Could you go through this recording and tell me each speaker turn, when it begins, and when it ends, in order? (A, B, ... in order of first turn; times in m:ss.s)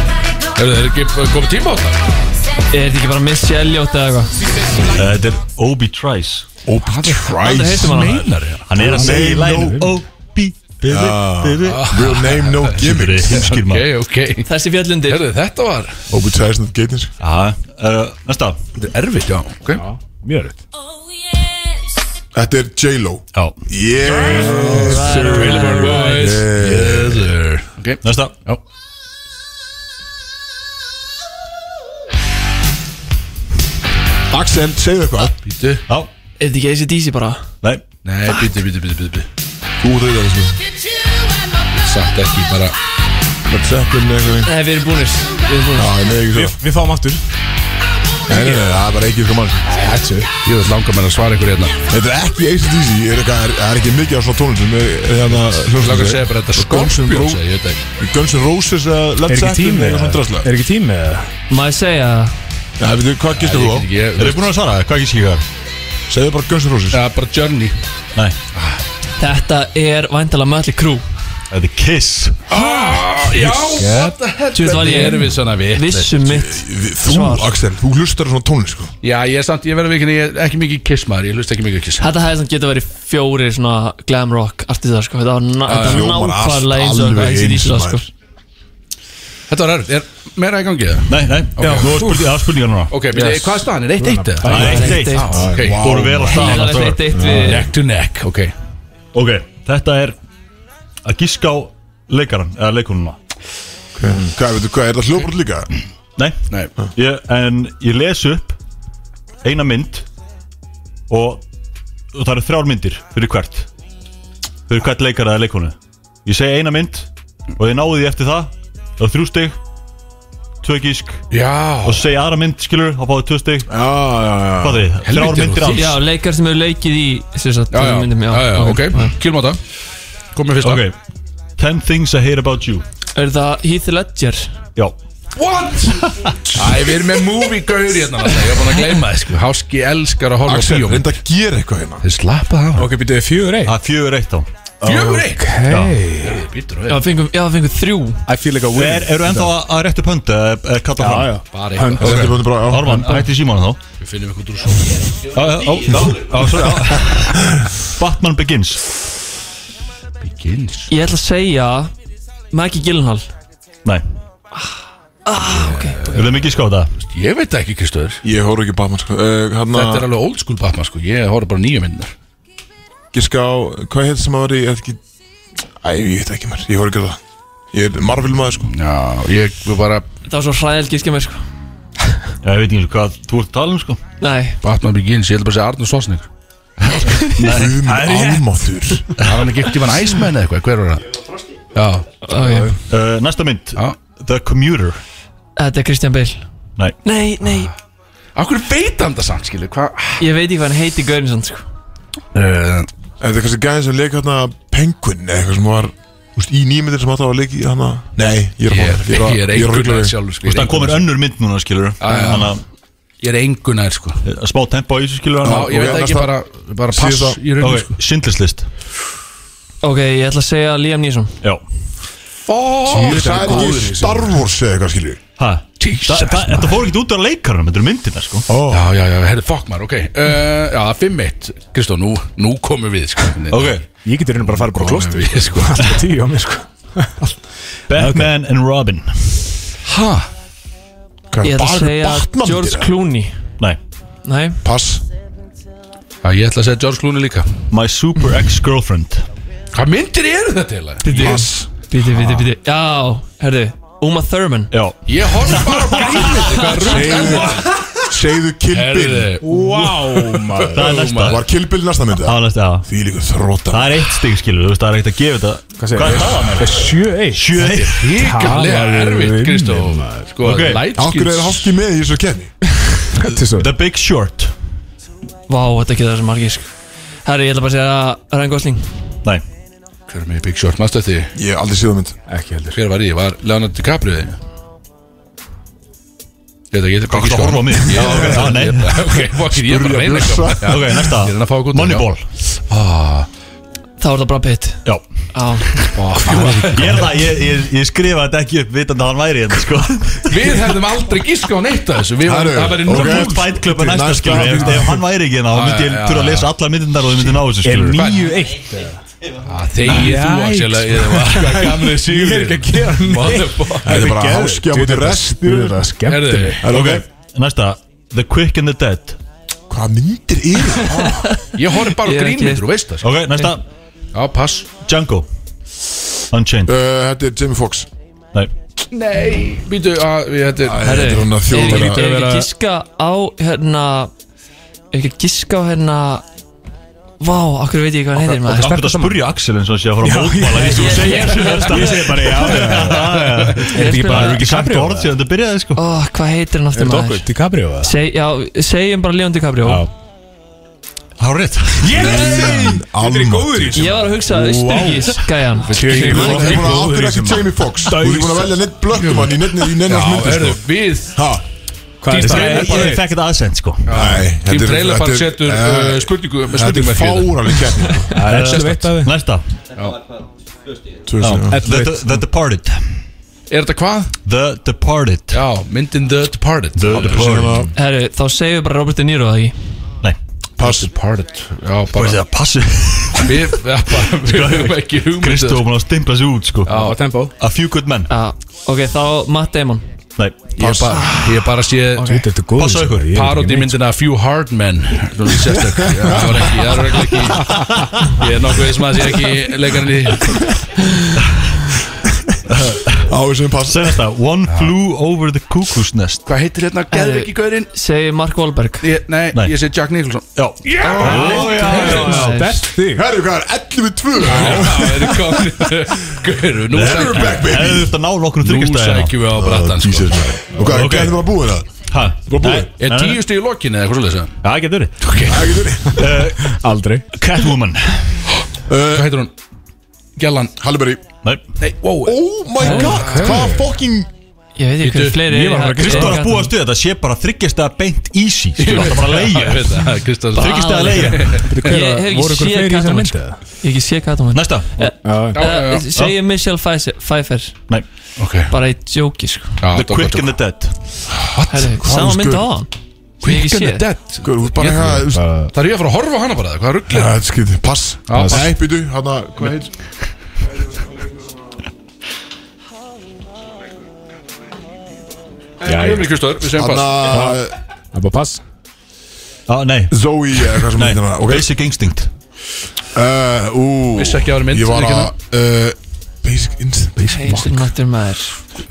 0:00.6-0:02.0 A
0:02.7-0:04.4 B
0:04.9-0:06.5 C
0:06.6-0:07.9 D
0:06.9-0:08.7 A
0:07.3-0:08.3 B
0:08.7-0:13.8 C
0:08.7-0:09.9 D
0:08.8-0:09.9 E
0:10.9-0:13.5 D
0:11.6-0:14.5 A
0:14.5-0:15.3 B
0:15.1-0:16.0 A
0:16.1-0:17.1 D
0:17.2-0:18.6 C
0:18.8-0:19.8 A
0:19.8-0:20.6 E
0:22.3-0:27.3 D
0:24.1-0:24.6 A
0:24.2-0:25.1 E
0:24.5-0:26.4 B
0:25.2-0:28.6 A
0:28.0-0:28.3 C
0:34.3-0:35.4 D
0:35.4-0:35.8 A
0:36.4-0:37.5 B
0:38.0-0:39.3 A
0:39.8-0:40.6 D
0:41.8-0:42.8 A
0:43.5-0:44.5 D
0:44.4-0:46.1 B
0:45.8-0:46.6 D
0:46.3-0:47.2 E
0:48.3-0:49.8 D
0:49.7-0:50.3 E
0:50.4-0:51.8 A
0:51.9-0:57.4 D
0:55.8-0:57.8 A
0:58.0-1:00.5 D
0:59.3-1:01.3 E
1:01.5-1:02.4 B
1:02.8-1:03.9 D
1:03.4-1:04.5 A
1:04.2-1:05.4 C
1:06.1-1:07.0 D
1:06.9-1:07.8 A
1:09.2-1:11.0 B
1:11.5-1:12.5 C
1:12.5-1:16.1 A
1:13.8-1:14.1 E
1:14.5-1:17.5 B
1:16.2-1:18.9 D
1:19.0-1:22.1 A
1:22.0-1:28.1 B
1:25.7-1:26.1 A
1:25.7-1:28.1 D
1:29.5-1:32.0 A
1:31.1-1:32.9 C
1:31.6-1:32.3 E
1:32.9-1:35.8 A
1:33.1-1:35.6 E
1:34.5-1:37.1 C
1:34.6-1:35.3 B
1:35.4-1:36.9 D
1:36.2-1:37.7 B
1:37.1-1:37.6 E
1:37.2-1:38.5 A
1:39.1-1:40.2 C
1:41.0-1:43.2 C
1:44.0-1:45.7 D
1:46.2-1:48.6 C
1:49.4-1:50.1 C
1:51.1-1:51.4 C
1:52.1-1:53.7 C
1:54.7-1:59.6 C
2:00.6-2:01.3 C
2:01.3-2:02.1 A
2:01.8-2:03.7 C
2:03.7-2:04.9 D
2:04.6-2:06.0 C
2:05.0-2:06.0 A
2:05.8-2:09.2 B
2:07.7-2:09.6 A
2:10.3-2:10.8 A
2:10.6-2:11.0 C
2:11.6-2:12.8 C
2:13.2-2:14.6 B
2:15.4-2:21.2 A
2:20.4-2:22.0 D
2:22.0-2:22.9 A
2:22.8-2:23.8 E
2:23.6-2:24.5 C
2:24.8-2:26.4 E
2:24.8-2:25.5 A
2:25.7-2:26.0 C
2:26.2-2:27.0 A
2:26.9-2:28.2 B
2:28.3-2:29.5 E
2:28.7-2:31.4 C
2:31.0-2:32.4 E
2:31.5-2:32.2 A
2:32.0-2:33.1 D
2:32.0-2:33.8 C
2:33.0-2:33.2 B
2:34.0-2:35.1 A
2:35.3-2:38.8 C
2:40.2-2:40.9 A
2:40.9-2:41.9 B
2:42.5-2:43.3 B
2:45.3-2:46.1 B
2:45.7-2:46.2 A
2:46.1-2:46.9 C
2:47.0-2:48.2 A
2:48.2-2:50.1 D
2:49.7-2:52.1 A
2:53.1-2:55.0 D
2:55.8-2:57.2 D
2:57.7-2:58.7 D
2:58.7-3:00.0 A
3:00.3-3:01.4 B
3:02.4-3:04.0 C
3:04.2-3:04.6 B
3:04.6-3:06.3 A
3:07.4-3:09.1 D
3:07.4-3:07.8 C
3:07.8-3:08.5 E
3:09.2-3:11.0 A
3:11.7-3:12.1 A
3:12.2-3:12.7 B
3:12.4-3:12.7 E
3:12.9-3:15.0 C
3:15.6-3:16.4 B
3:17.0-3:17.7 B
3:18.4-3:20.2 A
3:20.2-3:21.6 B
3:22.3-3:22.9 A
3:23.2-3:30.2 D
3:28.7-3:31.1 A
3:30.4-3:32.6 C
3:32.0-3:32.5 A
3:32.1-3:32.4 D
3:33.2-3:34.2 A
3:34.2-3:36.0 C
3:35.4-3:36.4 D
3:35.4-3:38.0 A
3:36.9-3:37.4 D
3:37.6-3:38.7 C
3:39.8-3:41.4 B
3:42.5-3:44.0 A
3:42.9-3:44.2 E
3:42.9-3:45.2 D
3:45.4-3:48.5 C
3:45.8-3:46.8 A
3:48.5-3:48.9 D
3:48.7-3:53.8 A
3:53.5-3:53.8 C
3:54.0-3:58.3 E
3:54.5-3:55.8 A
3:57.9-3:59.4 C
3:59.8-4:00.3 A
4:01.3-4:02.9 D
4:01.4-4:03.4 B
4:04.2-4:04.6 B
4:04.6-4:05.0 D
4:06.2-4:07.5 A
4:07.7-4:09.2 C
4:09.7-4:11.4 A
4:11.1-4:14.7 B
4:11.1-4:12.2 D
4:14.7-4:16.6 C
4:15.1-4:17.7 A
4:16.1-4:19.4 D
4:17.0-4:17.4 B
4:18.7-4:21.4 A
4:19.4-4:21.0 E
4:20.7-4:21.4 C
4:21.2-4:24.1 D
4:22.2-4:22.9 C
4:23.7-4:28.1 C
4:25.8-4:30.3 E
4:26.0-4:26.6 A
4:27.6-4:31.7 A
4:30.4-4:30.8 C
4:31.0-4:32.8 D
4:33.2-4:33.7 E
4:33.3-4:34.5 C
4:35.5-4:36.7 B
4:37.2-4:39.0 B
4:40.1-4:41.3 A
4:41.4-4:42.2 D
4:42.3-4:42.8 E
4:42.7-4:44.4 A
4:46.7-4:52.1 A
4:47.1-4:49.1 C
4:47.8-4:48.7 D
4:49.3-4:50.7 D
4:50.6-4:52.2 C
4:52.7-4:53.3 A
4:54.0-4:54.8 B
4:55.3-4:55.8 B
4:55.7-5:00.7 C
4:55.9-4:57.1 A
5:00.3-5:03.4 A
5:02.2-5:05.0 D
5:02.9-5:08.2 C
5:03.7-5:05.0 E
5:05.5-5:06.5 A
5:07.6-5:09.0 E
5:07.9-5:08.4 A
5:09.4-5:14.1 A
5:09.8-5:16.6 E
5:13.8-5:15.8 D
5:16.1-5:16.6 A
5:16.6-5:17.0 D
5:16.7-5:19.2 C
5:19.7-5:21.3 D
5:21.2-5:22.6 B
5:21.6-5:23.0 A
5:23.0-5:23.6 C
5:24.1-5:24.7 A
5:24.8-5:25.3 C
5:26.3-5:26.7 C
5:26.7-5:27.9 D
5:28.9-5:30.9 A
5:30.6-5:32.0 D
5:30.8-5:34.1 B
5:31.5-5:32.5 E
5:34.9-5:36.2 B
5:37.2-5:38.7 B
5:38.2-5:39.2 E
5:38.5-5:45.8 C
5:40.0-5:45.2 E
5:40.6-5:41.8 B
5:43.7-5:44.4 B
5:45.8-5:47.3 B
5:46.7-5:47.9 E
5:47.8-5:49.8 B
5:51.2-5:52.2 C
5:51.8-5:54.1 E
5:51.9-5:55.2 D
5:53.7-5:56.4 B
5:54.6-5:55.1 E
5:55.6-5:56.7 A
5:55.7-5:58.6 E
5:55.8-6:01.4 D
5:56.1-5:56.6 C
5:59.0-6:01.2 A
6:02.0-6:03.1 E
6:02.1-6:03.0 A
6:02.2-6:04.0 C
6:03.8-6:08.9 A
6:03.9-6:08.2 D
6:08.2-6:09.1 E
6:08.2-6:09.5 C
6:09.8-6:10.0 A
6:11.0-6:11.6 D
6:11.2-6:13.0 C
6:11.5-6:12.2 E
6:13.5-6:14.1 A
6:14.2-6:15.4 C
6:15.3-6:17.4 A
6:16.8-6:17.7 C
6:16.9-6:17.7 D
6:17.8-6:19.6 B
6:20.6-6:20.9 D
6:20.6-6:22.2 A
6:21.9-6:23.4 C
6:23.2-6:25.6 A
6:24.2-6:26.8 C
6:26.7-6:27.0 A
6:26.7-6:27.4 E
6:27.4-6:28.1 C
6:28.1-6:29.8 B
6:30.6-6:32.1 A
6:30.6-6:31.5 D
6:32.0-6:33.8 E
6:32.6-6:33.2 C
6:33.1-6:37.6 A
6:38.1-6:40.5 A
6:42.5-6:43.1 C
6:43.0-6:44.0 D
6:43.6-6:46.2 C
6:44.5-6:44.7 A
6:46.3-6:47.7 A
6:46.9-6:48.9 B
6:48.8-6:52.2 A
6:50.4-6:52.4 C
6:50.7-6:53.0 E
6:51.2-6:52.7 B
6:52.8-6:55.9 D
6:54.2-6:57.6 A
6:56.7-6:59.2 C
6:56.8-6:58.0 D
6:58.4-7:00.4 A
6:59.3-7:02.7 D
7:00.6-7:01.4 C
7:01.9-7:03.2 C
7:02.8-7:04.4 A
7:04.4-7:05.0 C
7:05.0-7:05.4 A
7:05.3-7:06.2 D
7:06.0-7:06.6 C
7:06.5-7:07.1 E
7:07.1-7:08.2 C
7:08.7-7:09.1 D
7:08.9-7:09.3 A
7:10.2-7:10.6 A
7:10.6-7:11.0 D
7:11.6-7:13.3 A
7:12.0-7:14.1 D
7:12.6-7:13.7 E
7:12.6-7:12.9 B
7:14.6-7:16.5 B
7:14.8-7:15.2 A
7:15.3-7:16.2 E
7:15.8-7:21.5 C
7:18.6-7:21.7 A
7:20.4-7:27.7 B
7:21.4-7:23.4 E
7:24.3-7:24.9 C
7:25.0-7:25.4 E
7:25.4-7:25.8 A
7:28.2-7:28.5 A
7:28.5-7:29.6 B
7:29.6-7:30.4 A
7:29.7-7:30.8 C
7:31.1-7:32.5 D
7:31.3-7:31.7 A
7:31.5-7:32.7 B
7:33.2-7:37.1 A
7:33.2-7:33.9 B
7:34.2-7:35.2 D
7:35.1-7:35.5 E
7:36.9-7:39.7 D
7:38.1-7:38.5 A
7:38.1-7:38.4 E
7:45.6-7:47.0 A
7:45.6-7:46.1 E
7:46.5-7:47.5 D
7:47.1-7:47.4 C
7:47.9-7:48.4 E
7:49.5-7:52.1 C
7:49.9-7:51.5 D
7:52.9-7:57.7 D
7:54.0-7:55.1 A
7:57.1-7:58.4 B